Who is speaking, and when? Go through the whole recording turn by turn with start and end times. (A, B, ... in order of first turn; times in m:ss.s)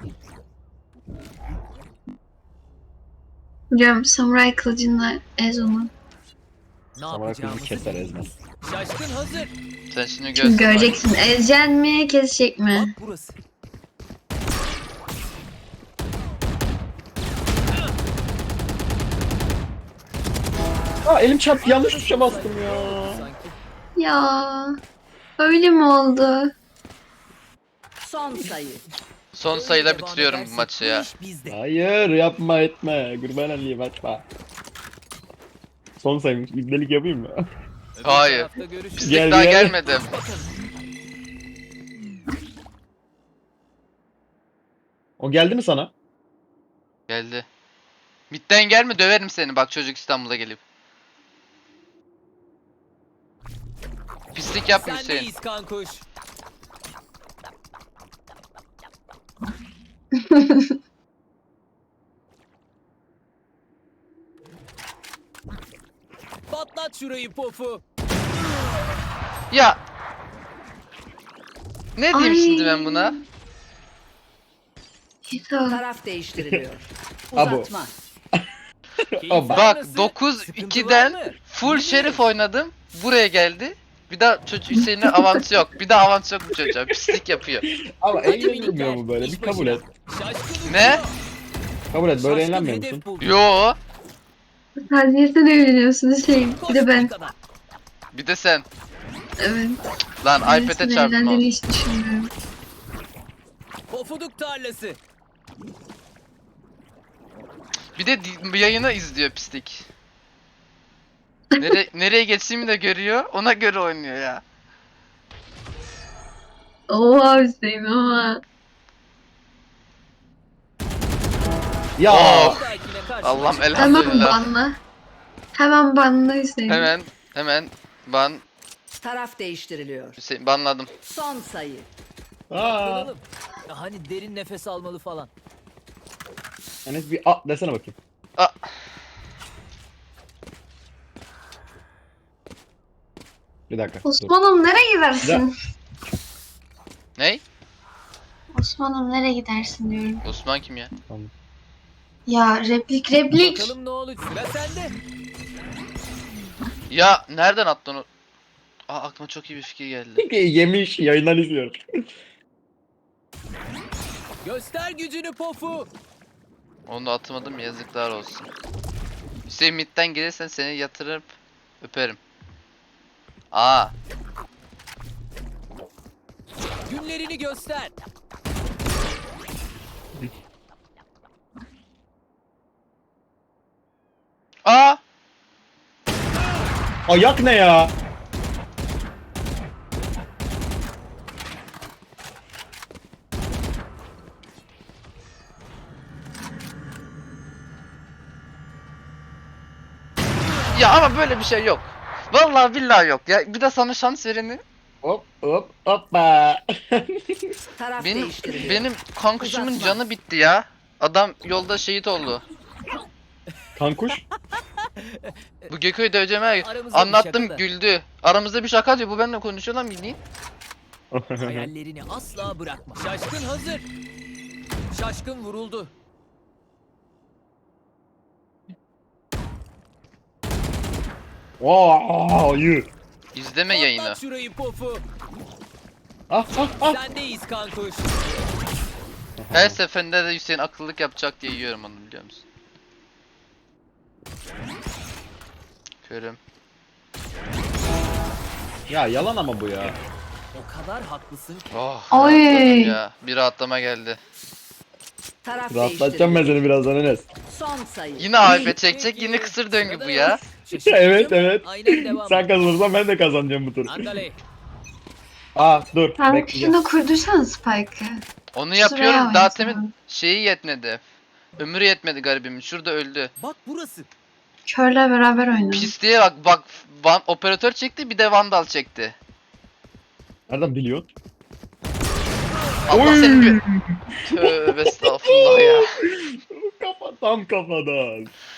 0:03.7-0:05.9 A
0:07.0-0:09.5 B
0:07.1-0:08.4 C
0:09.9-0:11.0 D
0:10.4-0:12.9 A
0:12.7-0:13.4 B
0:21.0-0:23.3 C
0:21.6-0:23.6 B
0:24.0-0:24.8 A
0:25.4-0:26.5 A
0:28.0-0:28.8 E
0:29.3-0:31.1 D
0:29.5-0:31.6 B
0:31.5-0:34.2 C
0:36.0-0:37.4 C
0:38.0-0:40.5 B
0:38.0-0:40.1 D
0:39.0-0:39.8 C
0:45.2-0:45.9 C
0:47.1-0:47.5 D
0:48.3-0:50.6 D
0:54.4-0:55.3 D
0:54.7-0:56.0 B
1:00.1-1:00.7 A
1:06.5-1:07.8 B
1:09.5-1:09.8 D
1:12.0-1:13.2 D
1:12.1-1:13.2 A
1:15.3-1:15.8 A
1:15.7-1:17.9 E
1:16.4-1:16.6 C
1:17.4-1:17.7 C
1:19.1-1:19.6 C
1:19.2-1:22.2 B
1:19.5-1:27.6 D
1:26.7-1:29.8 C
1:28.1-1:31.2 B
1:30.7-1:31.0 D
1:31.9-1:33.1 C
1:32.2-1:33.4 B
1:33.2-1:33.8 D
1:34.9-1:37.1 A
1:36.6-1:37.4 B
1:38.1-1:38.7 D
1:39.4-1:39.8 A
1:40.2-1:41.5 D
1:40.4-1:42.3 A
1:43.9-1:45.0 B
1:48.0-1:49.9 D
1:51.6-1:54.4 D
1:56.9-1:58.4 A
2:02.0-2:02.6 C
2:02.1-2:02.6 D
2:02.1-2:04.4 B
2:03.2-2:04.5 D
2:03.8-2:04.8 A
2:05.6-2:06.9 A
2:06.7-2:08.4 D
2:09.0-2:10.2 E
2:10.2-2:10.9 D
2:11.0-2:11.9 E
2:12.5-2:13.1 C
2:12.6-2:15.3 B
2:16.8-2:18.0 C
2:18.4-2:18.6 D
2:23.7-2:24.3 C
2:24.0-2:25.5 A
2:27.2-2:27.4 D
2:28.5-2:30.2 A
2:30.2-2:30.9 D
2:32.3-2:33.8 A
2:33.3-2:35.0 B
2:36.9-2:38.1 D
2:38.9-2:40.3 D
2:40.2-2:41.8 C
2:44.4-2:45.9 B
2:46.9-2:48.5 D
2:49.5-2:52.2 D
2:53.5-2:53.9 D
2:56.9-2:57.9 B
3:04.7-3:05.0 D
3:07.1-3:07.9 C
3:20.7-3:24.6 D
3:25.0-3:27.6 C
3:27.8-3:28.9 E
3:28.0-3:32.4 D
3:29.4-3:30.0 E
3:33.8-3:34.2 C
3:34.2-3:35.7 B
3:35.7-3:40.2 D
3:36.6-3:37.6 B
3:41.1-3:41.7 C
3:41.4-3:43.8 B
3:44.9-3:45.9 B
3:51.6-3:52.9 C
3:53.4-3:54.2 D
3:53.7-3:55.0 B
3:56.3-3:57.0 C
3:56.8-3:58.1 B
3:59.4-3:59.8 C
3:59.5-4:02.4 D
4:06.0-4:06.4 D
4:08.9-4:10.0 C
4:10.5-4:11.8 B
4:11.7-4:14.2 D
4:12.1-4:13.0 A
4:15.4-4:16.6 E
4:15.7-4:17.3 C
4:17.5-4:18.8 E
4:18.2-4:20.4 D
4:18.5-4:22.5 B
4:20.8-4:24.1 C
4:23.9-4:24.4 B
4:25.6-4:26.8 C
4:26.2-4:28.2 A
4:28.6-4:31.0 D
4:28.8-4:29.9 A
4:31.6-4:33.3 D
4:33.4-4:34.1 B
4:34.7-4:35.9 A
4:35.7-4:39.2 D
4:40.5-4:41.1 C
4:42.9-4:43.6 D
4:42.9-4:48.3 C
4:44.3-4:45.9 D